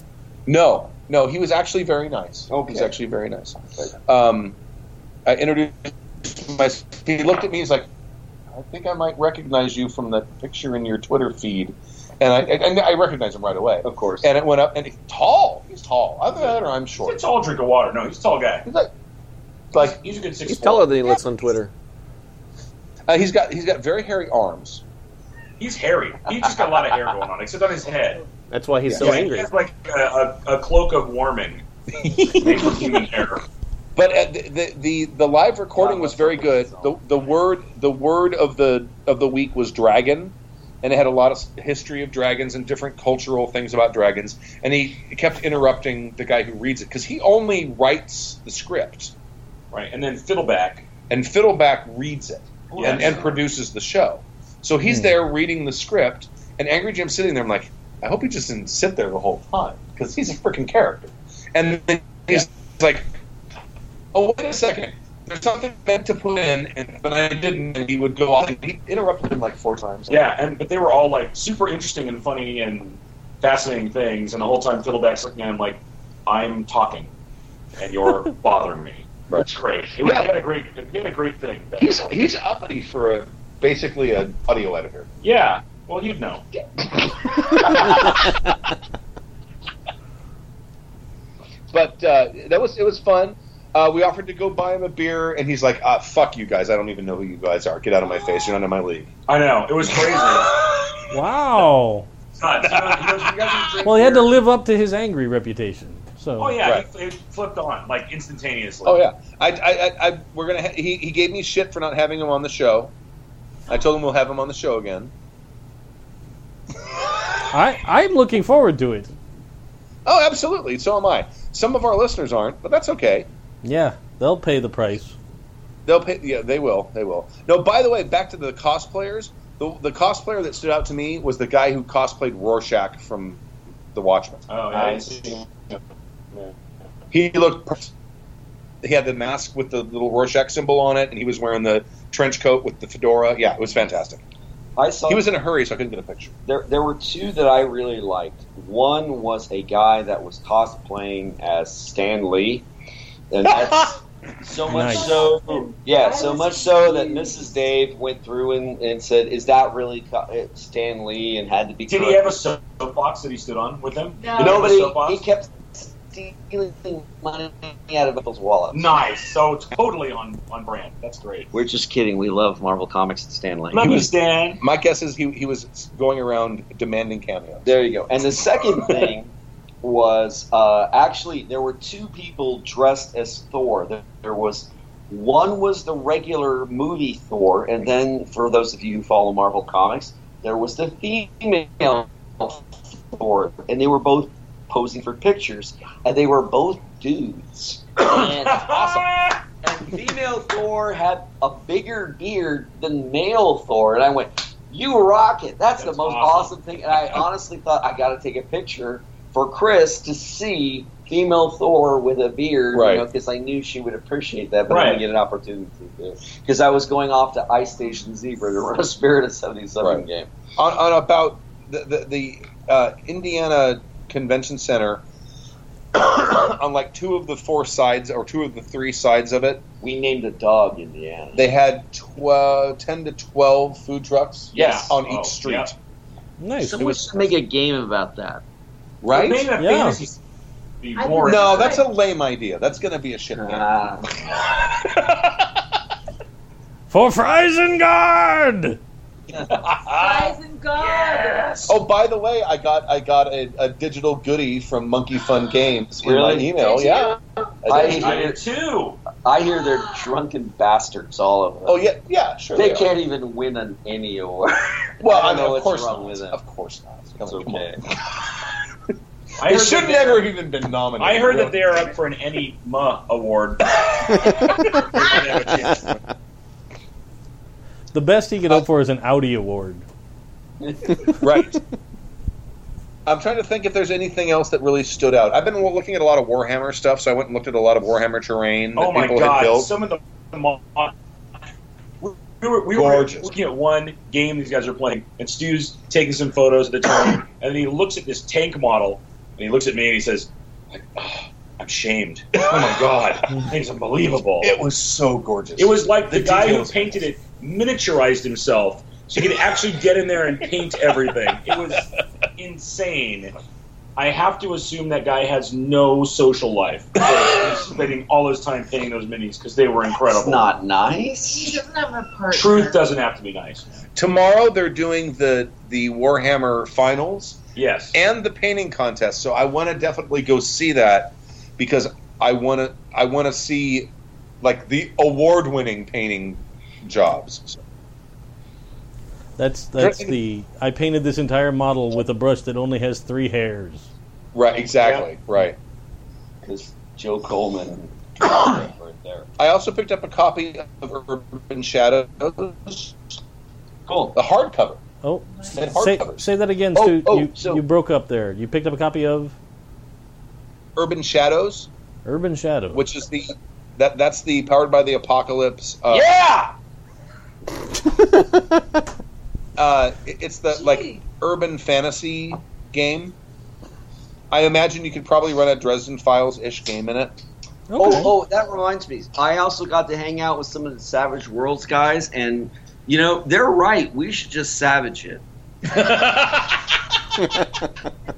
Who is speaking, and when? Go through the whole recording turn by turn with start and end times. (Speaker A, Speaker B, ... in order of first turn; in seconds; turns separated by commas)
Speaker A: 0.5-4.5, Speaker B: 2.5-2.9, Speaker A: 5.3-7.9, Speaker A: 8.5-17.2, Speaker B: 13.8-14.3, Speaker C: 17.0-18.7, Speaker A: 19.7-20.0, Speaker C: 19.8-20.9, Speaker D: 20.4-21.7, Speaker A: 23.1-24.8, Speaker C: 25.6-28.2, Speaker D: 28.5-29.5, Speaker A: 28.9-29.3, Speaker C: 29.0-31.6, Speaker C: 32.3-33.4, Speaker A: 34.0-49.1, Speaker B: 35.8-37.0, Speaker C: 49.7-50.9, Speaker A: 51.1-63.2, Speaker C: 52.7-53.4, Speaker E: 54.9-55.1, Speaker A: 64.1-70.2, Speaker C: 70.1-77.1, Speaker C: 77.8-81.9, Speaker A: 81.8-85.1, Speaker C: 85.2-86.5, Speaker A: 86.9-88.4, Speaker A: 91.7-99.1, Speaker C: 99.3-100.5, Speaker A: 100.5-100.8, Speaker E: 101.1-102.1, Speaker C: 102.4-103.9, Speaker A: 102.7-103.4, Speaker B: 103.4-104.3, Speaker E: 103.8-106.6, Speaker C: 106.4-109.0, Speaker A: 108.8-112.9, Speaker A: 113.7-115.1, Speaker E: 117.5-119.1, Speaker A: 120.0-123.3, Speaker E: 123.6-125.2, Speaker A: 125.9-133.4, Speaker A: 133.9-135.0, Speaker C: 134.5-135.8, Speaker A: 137.1-137.9, Speaker A: 138.8-144.2, Speaker B: 144.8-145.3, Speaker A: 145.1-146.3, Speaker B: 146.5-152.7, Speaker B: 153.3-162.4, Speaker A: 153.5-153.9, Speaker E: 154.7-155.3, Speaker F: 154.8-157.6, Speaker C: 161.9-165.3, Speaker F: 164.2-164.8, Speaker B: 164.4-168.9, Speaker C: 168.7-171.5, Speaker B: 171.5-174.0, Speaker C: 173.7-174.6, Speaker A: 173.8-177.7, Speaker B: 177.6-198.8, Speaker C: 198.1-199.4, Speaker A: 198.6-199.1, Speaker B: 199.6-220.3, Speaker C: 205.8-206.6, Speaker A: 212.7-213.1, Speaker C: 214.7-215.0, Speaker A: 220.6-225.0, Speaker A: 225.9-229.6, Speaker B: 229.8-231.5, Speaker A: 231.3-235.8, Speaker B: 234.5-234.9, Speaker C: 234.5-235.7, Speaker E: 236.4-236.9, Speaker B: 236.6-238.4, Speaker A: 236.8-237.1, Speaker A: 239.0-239.5, Speaker C: 239.1-240.2, Speaker E: 239.6-240.0, Speaker C: 240.8-241.8, Speaker F: 241.0-241.9, Speaker A: 241.2-243.7, Speaker B: 243.4-244.2, Speaker A: 245.0-245.3, Speaker E: 246.9-248.8, Speaker C: 249.6-250.0, Speaker F: 249.9-251.7, Speaker A: 250.1-250.3, Speaker C: 250.8-251.7, Speaker A: 251.7-258.1, Speaker B: 256.0-256.5, Speaker F: 256.6-257.1, Speaker B: 257.7-258.4, Speaker C: 257.7-259.0, Speaker B: 259.1-261.8, Speaker A: 261.7-262.9, Speaker B: 262.6-266.4, Speaker A: 265.0-268.3, Speaker B: 267.2-267.8, Speaker C: 269.4-270.3, Speaker A: 269.4-271.7, Speaker C: 271.0-276.0, Speaker E: 277.9-279.9, Speaker B: 280.6-281.1, Speaker A: 281.2-281.6, Speaker A: 283.1-289.7, Speaker C: 288.8-290.9, Speaker C: 292.0-304.5, Speaker A: 292.7-293.3, Speaker A: 302.4-302.8, Speaker A: 304.4-307.1, Speaker C: 305.6-313.3, Speaker C: 314.0-320.5, Speaker B: 320.1-321.6, Speaker F: 321.3-322.9, Speaker C: 322.3-323.7, Speaker A: 323.9-327.4, Speaker C: 327.6-327.9, Speaker A: 327.9-333.9, Speaker A: 334.4-337.6, Speaker E: 339.4-343.9, Speaker A: 339.8-340.2, Speaker A: 344.3-345.6, Speaker C: 344.8-345.1, Speaker B: 346.4-349.3, Speaker A: 349.4-353.0, Speaker B: 353.9-354.2, Speaker A: 354.1-354.8, Speaker E: 355.0-359.4, Speaker A: 355.5-356.2, Speaker B: 356.7-357.6, Speaker A: 360.8-361.7, Speaker E: 362.1-362.9, Speaker A: 362.7-366.1, Speaker B: 365.9-366.5, Speaker A: 369.6-373.1, Speaker F: 370.5-371.0, Speaker A: 374.3-377.2, Speaker E: 377.7-378.1, Speaker B: 377.8-385.2, Speaker A: 385.8-386.1